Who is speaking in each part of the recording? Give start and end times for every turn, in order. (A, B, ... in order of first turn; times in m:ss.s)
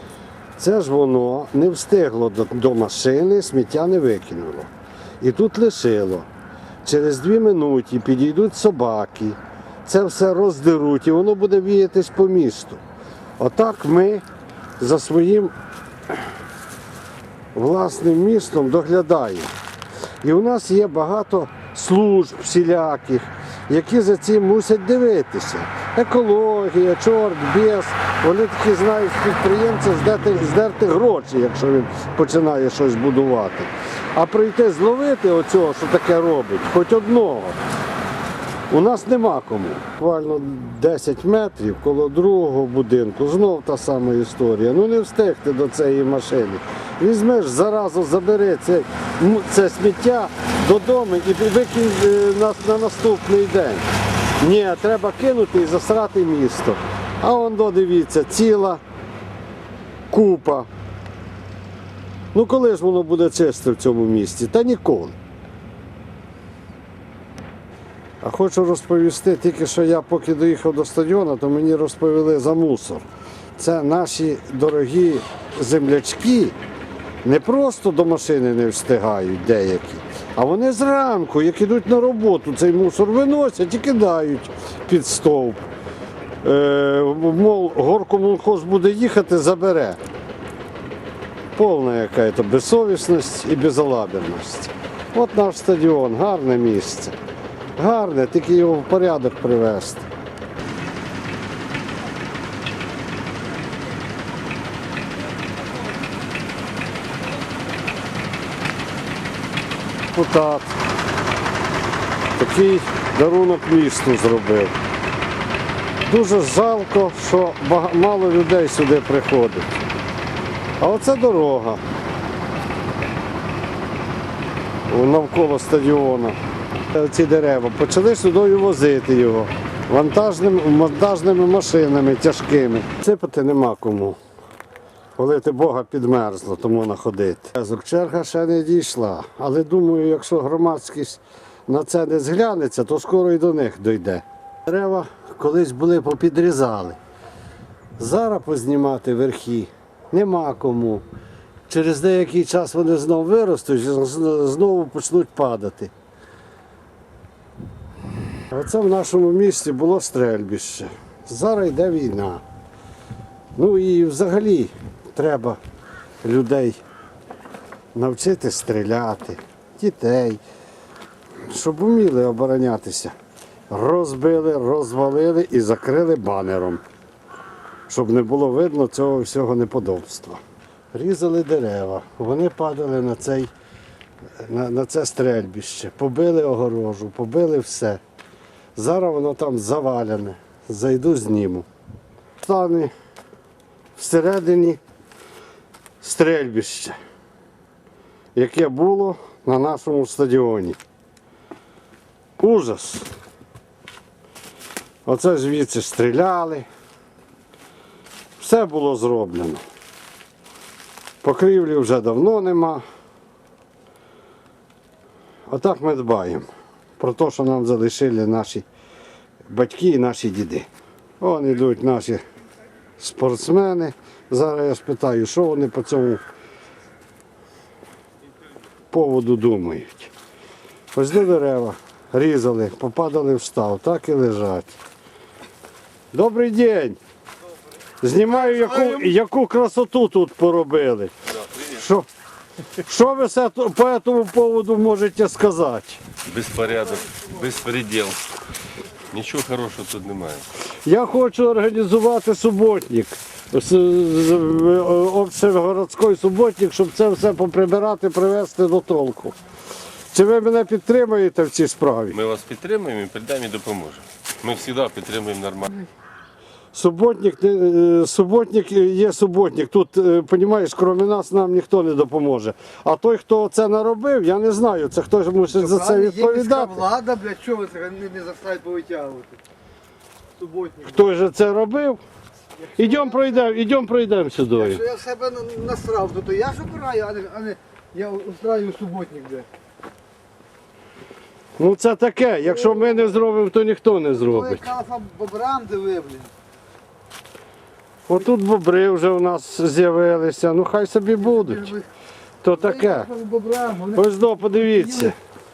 0:00.6-0:04.7 A
0:05.2-0:06.3 A
0:06.8-0:12.8 A
0:13.4-0:14.2 A
0:14.8-0:15.5 A
0:17.5-0:19.5 A
0:20.2-0:37.6 A
0:38.7-0:53.8 A
0:54.4-0:58.8 A
1:00.1-1:00.7 A
1:02.3-1:05.2 A
1:08.2-1:13.0 A
1:13.6-1:16.6 A
1:17.2-1:25.6 A
1:26.4-1:30.0 A
1:31.5-1:37.1 A
1:37.8-1:40.1 A
1:50.1-1:50.8 A
1:52.3-1:54.8 A
1:56.0-1:59.8 A
2:00.8-2:01.8 A
2:04.9-2:06.4 A
2:06.9-2:14.2 A
2:15.2-2:27.0 A
2:28.0-2:31.0 A
2:31.7-2:35.9 A
2:38.5-2:42.4 A
2:43.6-2:45.6 A
2:46.2-2:46.8 A
2:47.9-2:50.4 A
2:51.5-2:53.1 A
2:53.7-2:56.8 A
2:57.9-3:00.4 A
3:00.9-3:03.5 A
3:04.4-3:08.0 A
3:08.8-3:11.7 A
3:12.4-3:12.9 A
3:14.0-3:14.8 A
3:16.0-3:16.9 A
3:18.3-3:20.8 A
3:22.4-3:23.1 A
3:25.0-3:26.6 A
3:28.4-3:29.6 A
3:31.2-3:32.8 A
3:35.5-3:38.6 A
3:39.5-3:40.7 A
3:41.2-3:42.2 A
3:43.0-3:46.2 A
3:48.9-3:50.1 A
3:50.9-3:54.8 A
3:56.1-3:57.0 A
3:58.0-4:02.1 A
4:02.8-4:06.0 A
4:06.2-4:08.2 B
4:09.1-4:10.5 B
4:10.8-4:19.4 A
4:20.1-4:22.2 A
4:22.1-4:25.8 B
4:26.7-4:36.9 A
4:35.8-4:39.4 C
4:40.4-4:40.8 C
4:40.8-4:42.0 A
4:42.7-4:44.9 A
4:44.7-4:49.5 C
4:51.6-4:54.7 A
4:54.5-4:56.3 C
4:58.1-5:01.8 A
5:02.4-5:03.2 A
5:03.1-5:03.9 C
5:03.8-5:05.1 A